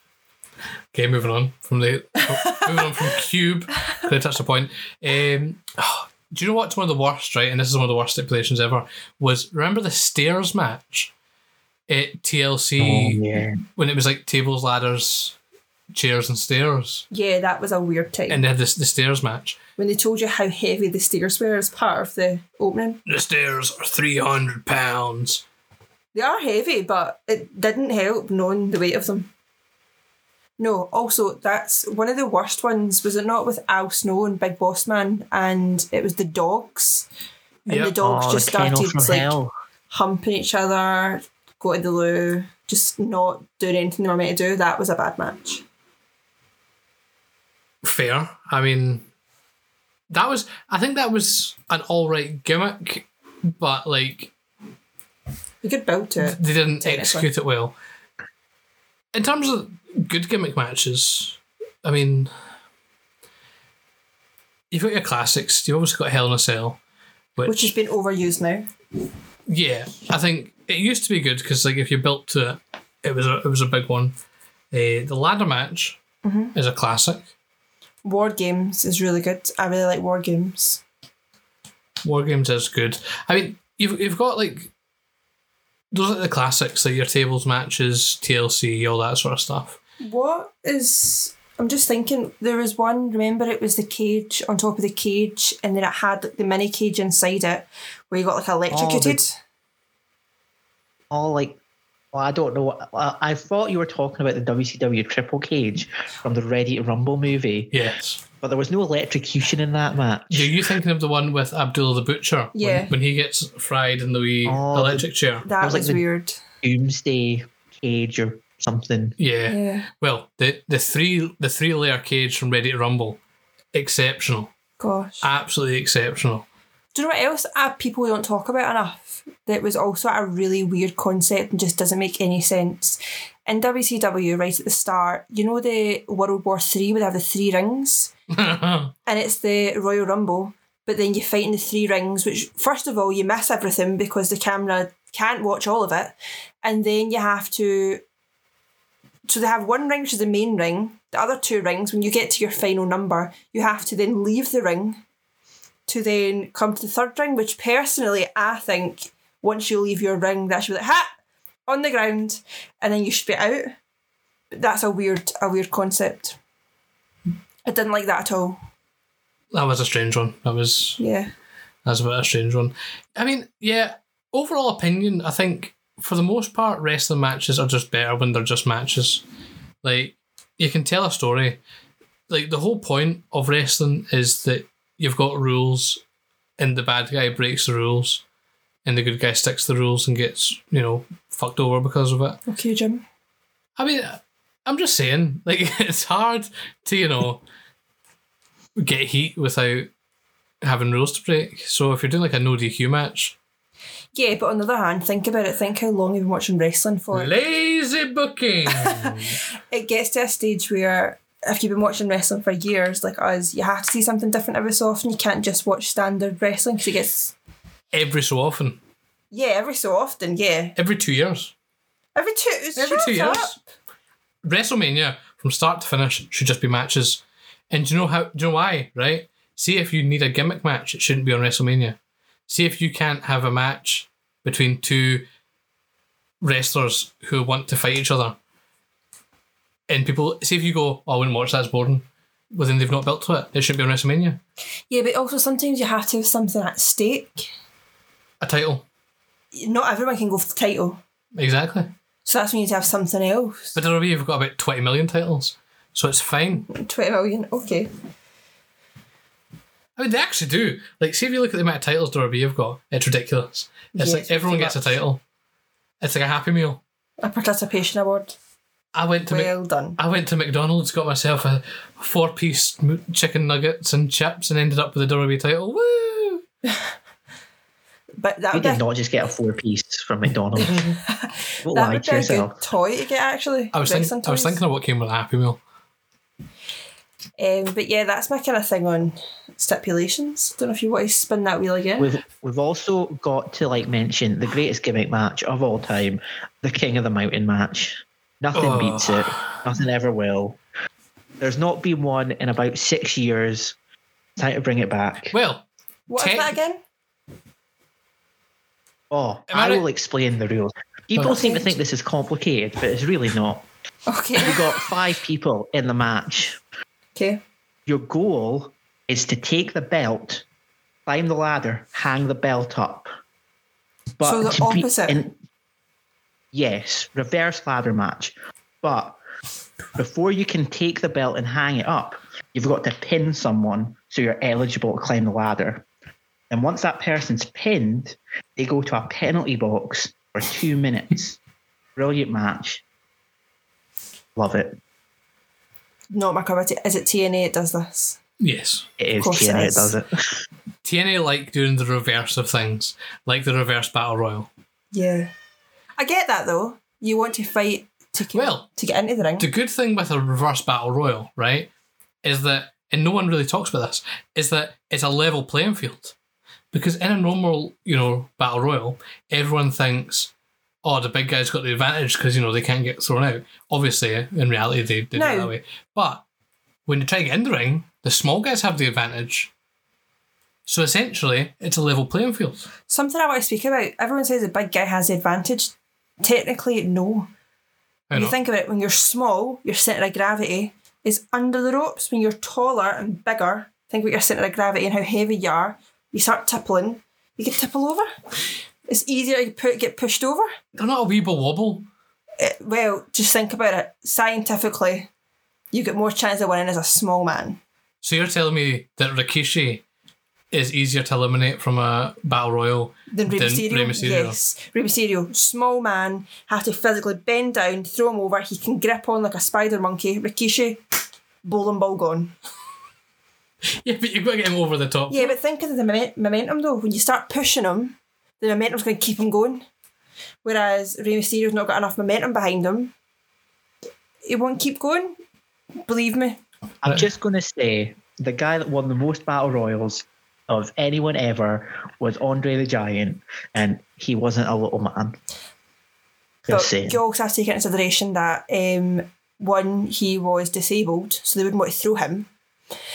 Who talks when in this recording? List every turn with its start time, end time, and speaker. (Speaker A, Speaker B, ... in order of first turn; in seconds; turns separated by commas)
Speaker A: 0.9-11.1, Speaker A: 11.9-13.2, Speaker B: 12.8-13.6, Speaker A: 13.8-15.4, Speaker A: 15.9-17.0, Speaker C: 17.1-18.4, Speaker A: 18.3-19.6, Speaker C: 19.8-23.0, Speaker A: 23.1-25.4, Speaker C: 26.1-29.3, Speaker C: 30.6-37.1, Speaker C: 37.6-39.4, Speaker A: 37.7-37.9, Speaker B: 38.0-39.5, Speaker C: 39.9-45.6, Speaker A: 47.8-49.0, Speaker A: 50.1-54.3, Speaker C: 55.6-57.3, Speaker A: 56.2-57.7, Speaker A: 59.1-62.3, Speaker A: 64.7-66.8, Speaker A: 67.4-67.7, Speaker C: 67.4-68.7, Speaker A: 69.5-74.1, Speaker A: 74.7-76.0, Speaker C: 76.2-76.5, Speaker A: 76.5-77.2, Speaker C: 78.0-80.8, Speaker A: 82.0-84.7, Speaker A: 85.9-89.8, Speaker C: 90.0-99.4, Speaker B: 98.7-99.2, Speaker B: 101.1-101.6, Speaker B: 102.1-107.8, Speaker A: 107.7-108.2, Speaker B: 108.4-110.6, Speaker A: 110.3-115.5, Speaker C: 112.5-112.9, Speaker B: 114.4-115.1, Speaker C: 115.4-116.4, Speaker B: 115.6-116.0, Speaker B: 116.6-119.1, Speaker A: 119.2-123.2, Speaker C: 119.5-119.9, Speaker A: 123.7-124.5, Speaker C: 124.8-125.2, Speaker A: 125.2-126.5, Speaker C: 126.9-138.1, Speaker A: 138.3-138.9, Speaker C: 139.1-148.0, Speaker C: 149.3-155.0, Speaker C: 155.9-161.1, Speaker C: 161.7-163.8, Speaker C: 164.5-166.4, Speaker C: 167.7-168.6, Speaker A: 169.5-171.0, Speaker C: 171.0-171.3, Speaker A: 171.8-179.2, Speaker A: 179.8-181.6, Speaker A: 182.3-186.0, Speaker A: 186.6-188.2, Speaker A: 188.8-192.4, Speaker C: 192.5-193.0, Speaker A: 193.8-197.4, Speaker A: 198.8-199.9, Speaker A: 200.6-203.3, Speaker C: 204.1-207.3, Speaker A: 207.1-209.4, Speaker C: 208.7-209.2, Speaker C: 209.7-217.3, Speaker A: 217.9-218.8, Speaker C: 219.3-220.7, Speaker A: 220.8-221.5, Speaker C: 222.1-223.6, Speaker A: 222.8-223.6, Speaker A: 224.4-232.0, Speaker A: 232.5-235.2, Speaker A: 236.4-238.4, Speaker A: 239.9-244.4, Speaker C: 244.9-247.5, Speaker A: 248.4-248.8, Speaker C: 249.5-251.0, Speaker A: 251.3-251.9, Speaker C: 252.2-253.8, Speaker A: 253.7-256.7, Speaker C: 256.6-257.9, Speaker A: 260.0-265.2, Speaker C: 263.9-264.9, Speaker A: 266.0-266.8, Speaker C: 267.2-268.4, Speaker A: 268.9-276.4, Speaker C: 269.3-270.0, Speaker C: 278.2-278.8, Speaker B: 278.5-280.9, Speaker C: 280.6-284.6, Speaker B: 281.6-282.6, Speaker A: 283.7-285.6, Speaker C: 287.4-292.1, Speaker B: 292.0-300.6, Speaker A: 298.5-299.6, Speaker B: 301.4-303.8, Speaker B: 304.4-305.3, Speaker A: 305.3-305.6, Speaker C: 306.1-306.8, Speaker A: 306.2-306.5, Speaker B: 309.1-313.6, Speaker A: 309.5-309.8, Speaker C: 311.2-311.7, Speaker C: 314.1-314.8, Speaker B: 314.4-316.6, Speaker C: 317.1-317.4, Speaker B: 317.9-320.4, Speaker B: 321.1-323.1, Speaker B: 324.2-325.4, Speaker C: 324.2-325.2, Speaker B: 326.5-329.2, Speaker B: 329.9-335.9, Speaker B: 336.5-341.4, Speaker B: 341.9-342.8, Speaker B: 344.4-344.8, Speaker C: 346.1-348.2, Speaker A: 348.4-348.9, Speaker B: 349.0-350.4, Speaker C: 349.2-349.9, Speaker A: 350.9-354.5, Speaker C: 354.9-355.3, Speaker C: 356.0-359.5, Speaker A: 358.3-358.7, Speaker A: 359.4-361.7, Speaker A: 362.2-366.1, Speaker A: 366.7-370.3, Speaker A: 370.8-376.2, Speaker C: 375.1-375.5, Speaker A: 376.9-379.5, Speaker A: 380.6-382.7, Speaker C: 382.9-387.3, Speaker A: 388.1-388.4, Speaker C: 388.1-398.1, Speaker C: 398.9-400.5, Speaker A: 400.8-401.9, Speaker C: 402.4-405.1, Speaker C: 405.7-407.6, Speaker A: 408.0-409.8, Speaker A: 410.5-414.4, Speaker C: 413.1-420.8, Speaker C: 421.4-422.4, Speaker A: 423.8-425.4, Speaker C: 425.1-429.6, Speaker C: 430.4-432.9, Speaker C: 434.2-435.2, Speaker C: 435.9-436.4, Speaker B: 436.8-445.2, Speaker B: 446.5-447.0, Speaker C: 446.5-452.3